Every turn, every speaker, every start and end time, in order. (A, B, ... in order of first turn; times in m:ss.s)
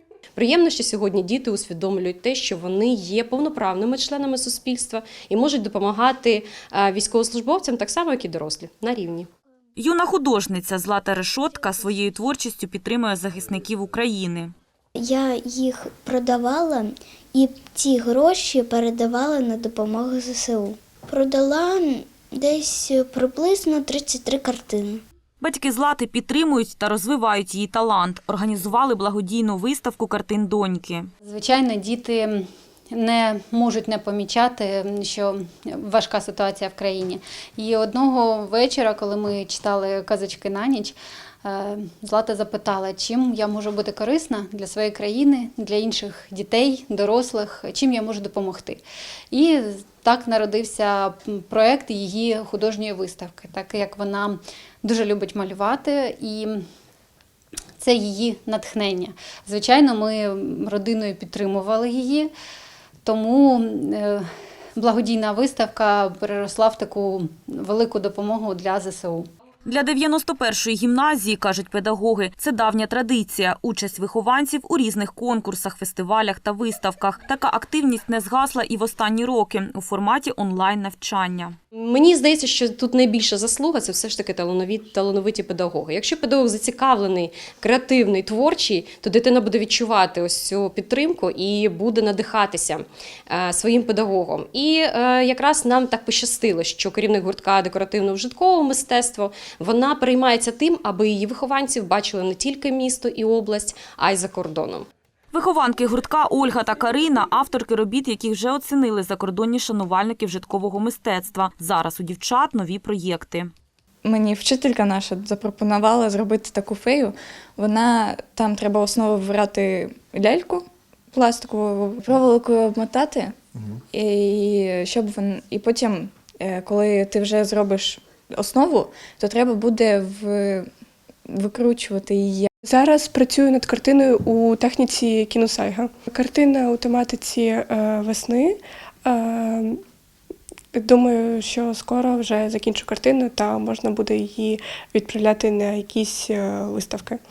0:00.4-0:09.3 A
0:09.8-0:14.5 B
0:15.0-0:25.0 C
0:25.4-0:31.1 B
0:31.2-0:56.6 D
0:57.8-1:02.3 D
1:03.0-1:04.3 D
1:04.8-1:09.3 D
1:09.7-1:21.6 B
1:21.8-1:44.9 A
1:45.3-1:53.5 B
1:54.0-2:03.4 E
2:03.9-2:10.7 E
2:11.3-2:12.5 E
2:12.6-2:19.8 F
2:20.7-2:27.2 F